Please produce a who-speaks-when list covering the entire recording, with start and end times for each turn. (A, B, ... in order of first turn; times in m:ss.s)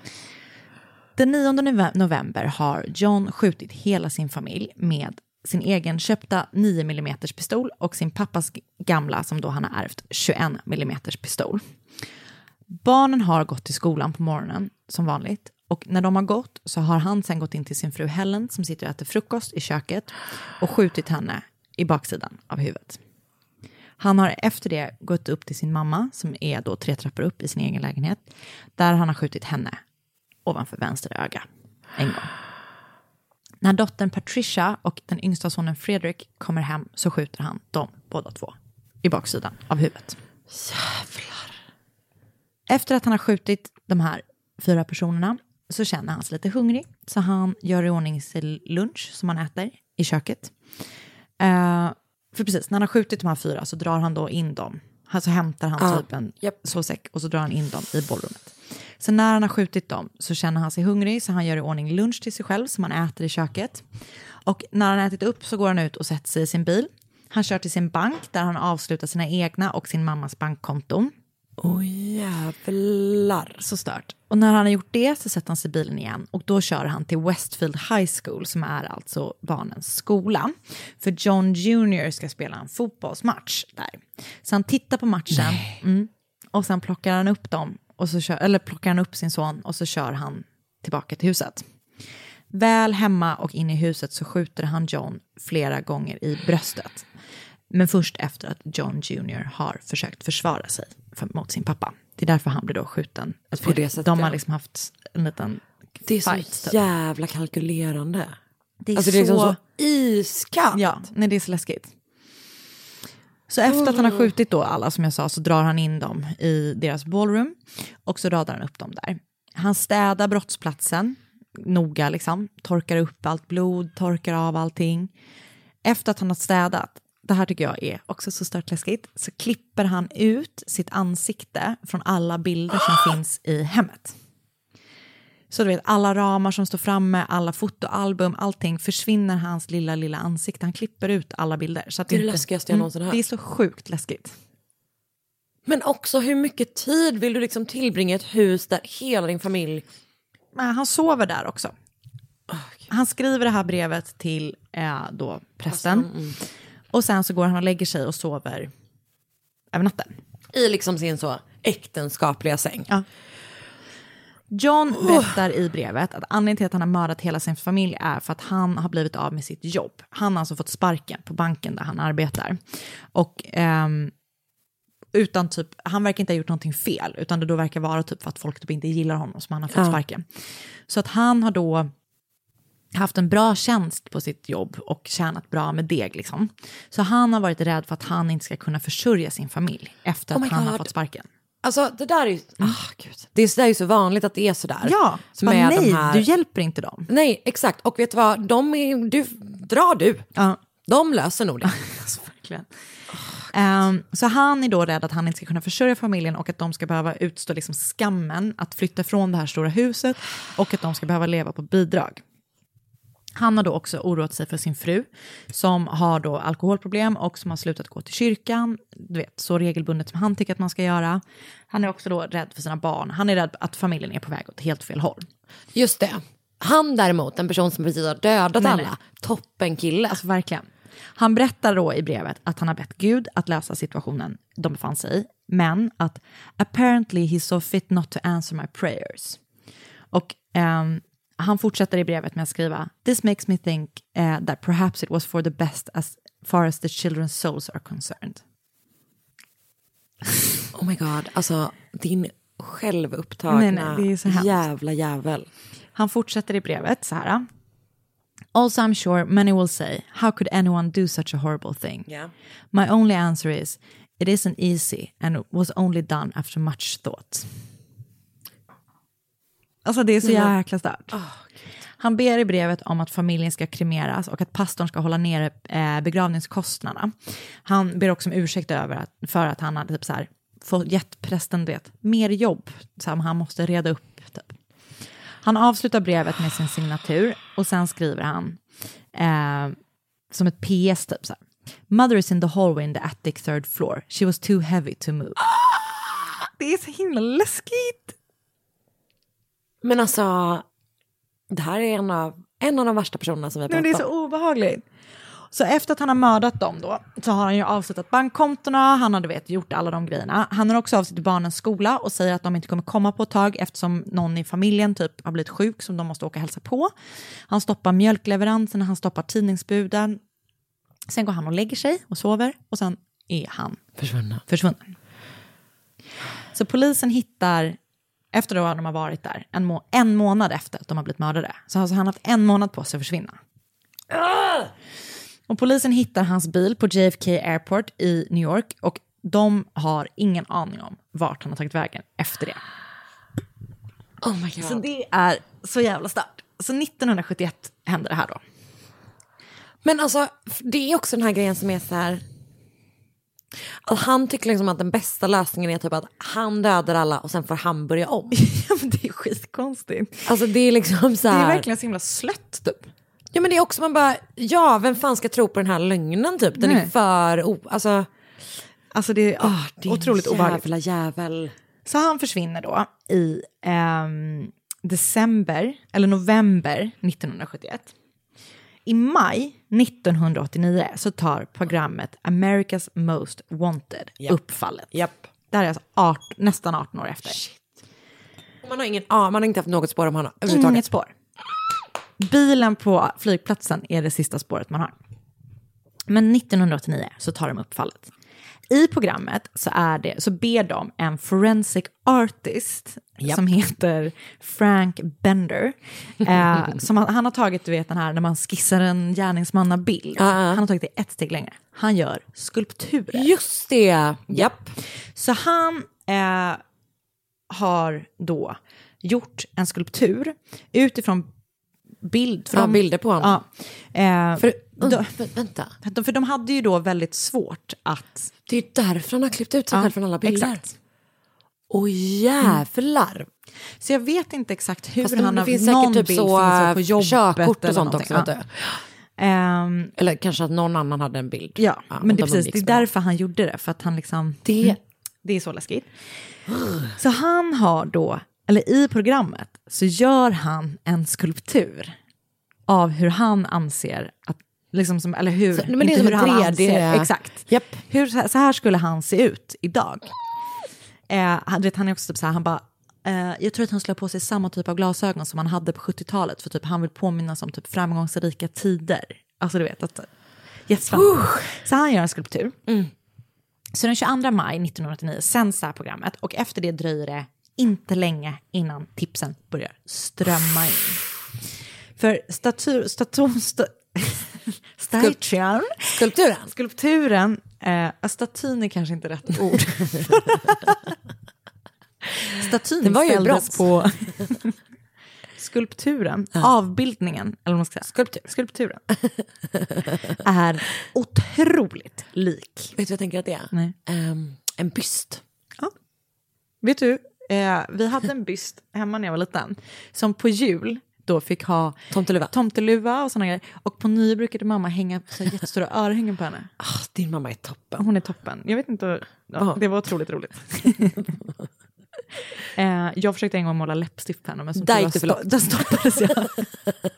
0:01.2-0:11.6 A
0:12.7-0:23.0 A
0:24.0-0:28.2 A
0:28.8-0:29.8 A
0:30.4-0:31.4 A
0:32.0-0:32.3 A
0:33.6-0:40.2 A
0:40.5-0:41.5 B
0:42.7-0:50.5 A
0:51.4-1:03.8 A
0:55.8-0:56.6 B
1:04.4-1:11.1 A
1:11.6-1:13.6 B
1:13.6-1:31.6 A
1:32.5-1:37.1 A
1:37.7-1:45.6 A
1:43.5-1:44.4 B
1:46.0-1:48.4 B
1:46.2-1:46.8 A
1:48.8-1:49.6 A
1:48.9-1:50.8 B
1:50.7-1:51.9 A
1:53.5-2:05.1 A
1:53.7-1:54.3 B
2:05.8-2:14.1 A
2:15.5-2:24.3 A
2:22.1-2:23.2 B
2:25.6-2:29.8 B
2:30.5-2:31.7 A
2:32.5-2:32.7 B
2:32.9-2:36.1 A
2:35.7-2:36.4 B
2:36.9-2:38.7 A
2:39.7-2:40.1 A
2:40.5-2:42.9 B
2:44.5-2:52.6 A
2:45.0-2:45.3 B
2:53.1-2:54.1 A
2:55.1-3:00.2 A
2:59.7-3:00.0 B
3:00.9-3:01.9 A
3:02.9-3:11.3 A
3:10.3-3:10.9 B
3:11.6-3:16.3 B
3:14.8-3:17.1 A
3:17.1-3:20.3 B
3:20.8-3:21.7 B
3:21.6-3:22.7 A
3:23.1-3:23.5 B
3:23.5-3:32.2 A
3:33.4-3:45.2 A
3:45.7-3:50.2 B
3:48.6-3:48.9 A
3:50.1-3:59.4 A
4:00.1-4:08.4 A
4:10.7-4:15.5 B
4:13.5-4:14.6 A
4:15.9-4:17.4 A
4:18.5-4:22.1 A
4:22.7-4:27.5 A
4:29.8-4:31.2 A
4:30.2-4:30.5 B
4:31.1-4:31.4 B
4:32.0-4:37.1 A
4:37.6-4:44.5 A
4:45.4-4:48.6 A
4:49.1-4:49.8 A
4:50.3-4:55.9 A
4:56.4-4:58.1 A
4:59.8-5:00.6 B
5:01.5-5:04.0 B
5:03.7-5:04.8 A
5:05.5-5:16.9 A
5:17.5-5:20.2 A
5:21.1-5:23.8 A
5:24.0-5:24.4 B
5:24.5-5:24.9 A
5:26.5-5:27.8 A
5:28.3-5:33.4 A
5:34.1-5:34.6 B
5:35.5-5:42.6 A
5:44.2-5:44.8 B
5:44.6-5:48.4 A
5:49.8-5:52.2 B
5:53.8-5:58.3 B
5:58.3-6:00.3 A
6:00.2-6:01.7 B
6:01.3-6:02.9 A
6:03.3-6:08.1 B
6:06.6-6:06.9 A
6:08.9-6:10.6 A
6:09.4-6:11.5 B
6:11.8-6:17.9 A
6:18.8-6:24.9 A
6:24.9-6:25.2 B
6:25.5-6:27.4 A
6:27.2-6:27.6 B
6:28.6-6:30.8 B
6:30.5-6:31.1 A
6:32.2-6:34.9 A
6:36.1-6:38.1 A
6:38.7-6:53.3 A
6:50.2-6:50.6 B
6:53.1-6:54.7 B
6:55.1-6:56.6 A
6:57.5-7:01.3 A
7:02.0-7:05.2 A
7:02.5-7:03.4 B
7:04.4-7:05.7 B
7:05.8-7:08.3 A
7:08.5-7:10.6 B
7:09.7-7:10.7 A
7:11.7-7:13.3 B
7:13.8-7:18.3 A
7:15.0-7:18.8 B
7:19.2-7:19.9 A
7:20.0-7:22.9 B
7:21.6-7:25.9 A
7:24.4-7:24.8 B
7:26.5-7:26.8 B
7:26.9-7:31.9 A
7:32.7-7:40.1 A
7:35.5-7:37.8 B
7:41.1-7:50.1 A
7:50.7-7:52.6 A
7:50.9-7:51.5 B
7:53.7-8:01.0 A
8:02.0-8:10.8 A
8:05.9-8:06.5 B
8:12.3-8:14.5 A
8:12.8-8:13.6 B
8:15.4-8:18.8 A
8:17.9-8:18.2 B
8:20.2-8:22.7 A
8:22.7-8:25.2 B
8:26.6-8:31.8 A
8:31.9-8:32.3 B
8:32.3-8:36.5 A
8:36.6-8:37.8 B
8:37.8-8:41.1 A
8:42.5-8:46.5 A
8:44.6-8:46.1 B